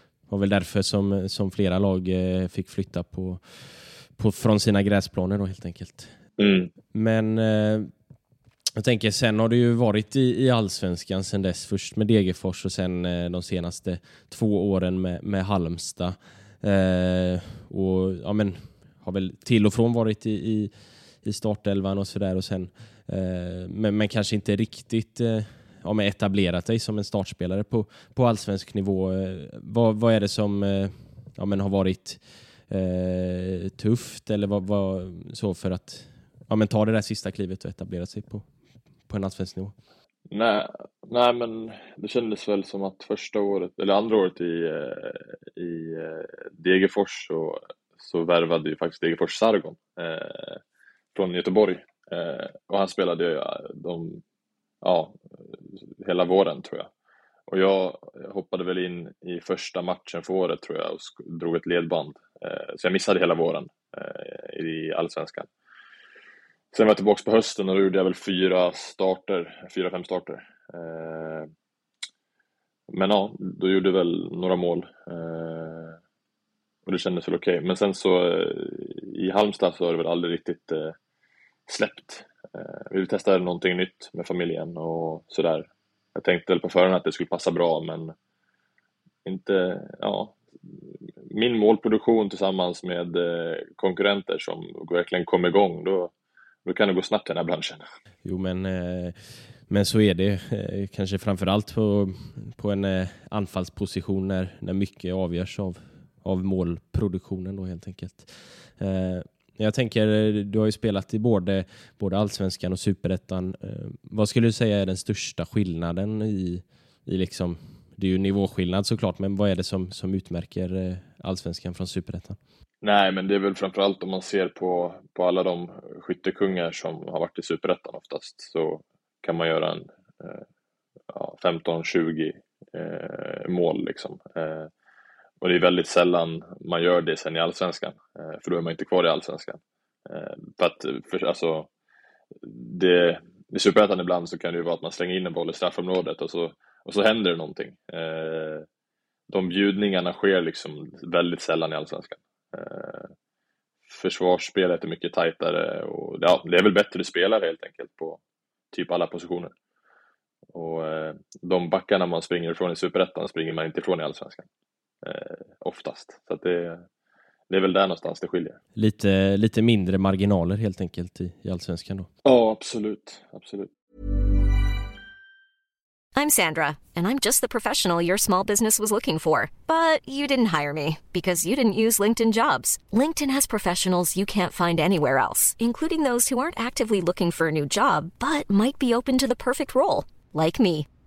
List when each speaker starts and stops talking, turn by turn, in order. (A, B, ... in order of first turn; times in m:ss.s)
0:00.3-0:06.1 A
0:06.4-0:06.7 B
0:06.9-0:07.9 A
0:08.8-0:38.5 A
0:39.1-0:39.7 A
0:40.3-0:50.6 B
0:51.1-0:54.2 B
0:54.8-0:55.2 B
0:55.7-0:56.9 B
0:57.5-1:05.5 B
1:06.7-1:11.5 B
1:12.9-1:16.0 B
1:16.8-1:21.0 B
1:21.7-1:28.1 B
1:29.2-1:36.1 B
1:36.6-1:37.8 B
1:38.2-2:02.4 A
2:02.8-2:10.4 B
2:11.1-2:14.7 B
2:15.4-2:21.7 B
2:22.4-2:28.6 B
2:29.3-2:33.1 B
2:33.9-2:38.2 B
2:38.7-2:39.5 B
2:40.5-2:44.5 B
2:45.0-2:46.8 B
2:47.5-2:48.6 B
2:48.8-2:52.1 A
2:52.2-2:53.7 B
2:56.1-3:10.9 C